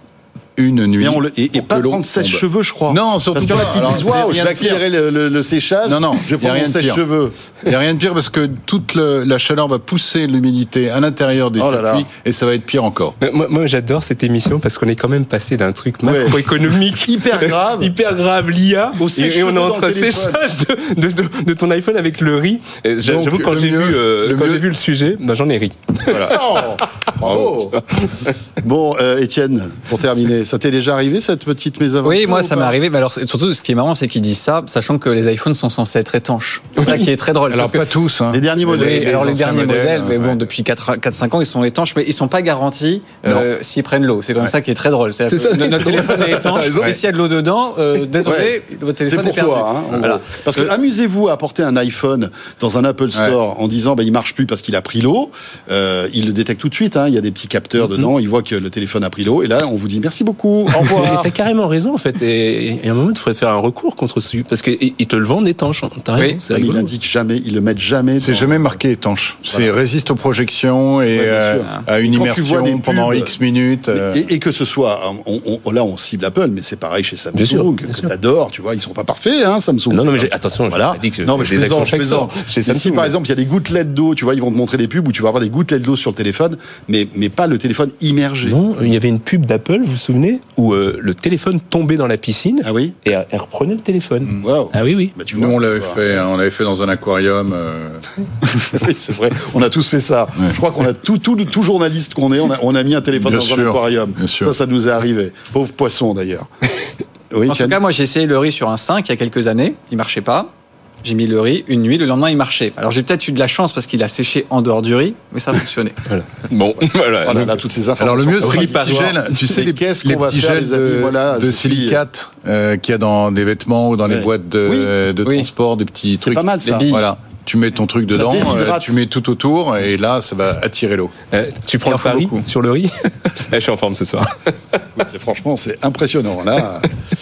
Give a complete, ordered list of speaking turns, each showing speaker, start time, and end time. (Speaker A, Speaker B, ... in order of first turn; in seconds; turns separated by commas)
Speaker A: 0.6-4.8, Speaker B: 1.0-7.3, Speaker A: 5.9-7.0, Speaker A: 7.6-13.2, Speaker B: 11.6-12.1, Speaker C: 13.2-27.1, Speaker B: 16.0-17.9, Speaker B: 19.0-20.4, Speaker A: 23.0-24.7, Speaker B: 26.1-27.8, Speaker A: 27.2-27.5, Speaker C: 27.7-28.3, Speaker B: 28.6-32.8, Speaker D: 32.0-37.9, Speaker A: 36.9-40.5, Speaker B: 38.3-39.5, Speaker D: 38.7-50.7, Speaker C: 45.3-47.0, Speaker B: 48.2-48.5, Speaker B: 49.1-61.3, Speaker C: 60.8-66.9, Speaker B: 66.5-68.8, Speaker A: 68.2-74.2, Speaker B: 71.2-73.3, Speaker B: 73.9-88.6, Speaker C: 77.3-78.1, Speaker C: 79.9-83.1, Speaker C: 88.4-95.2, Speaker B: 92.6-93.0, Speaker B: 94.4-96.0, Speaker A: 95.3-98.0, Speaker B: 98.4-106.5, Speaker A: 103.2-104.5, Speaker B: 107.3-107.8, Speaker D: 107.5-110.5, Speaker D: 111.0-116.0, Speaker C: 116.1-117.5, Speaker B: 117.2-122.0, Speaker A: 118.0-131.1, Speaker C: 118.4-119.0, Speaker B: 124.1-124.9, Speaker B: 126.2-126.9, Speaker D: 126.7-127.0, Speaker B: 128.1-129.0, Speaker C: 131.3-134.8, Speaker A: 131.9-132.2, Speaker B: 135.0-136.9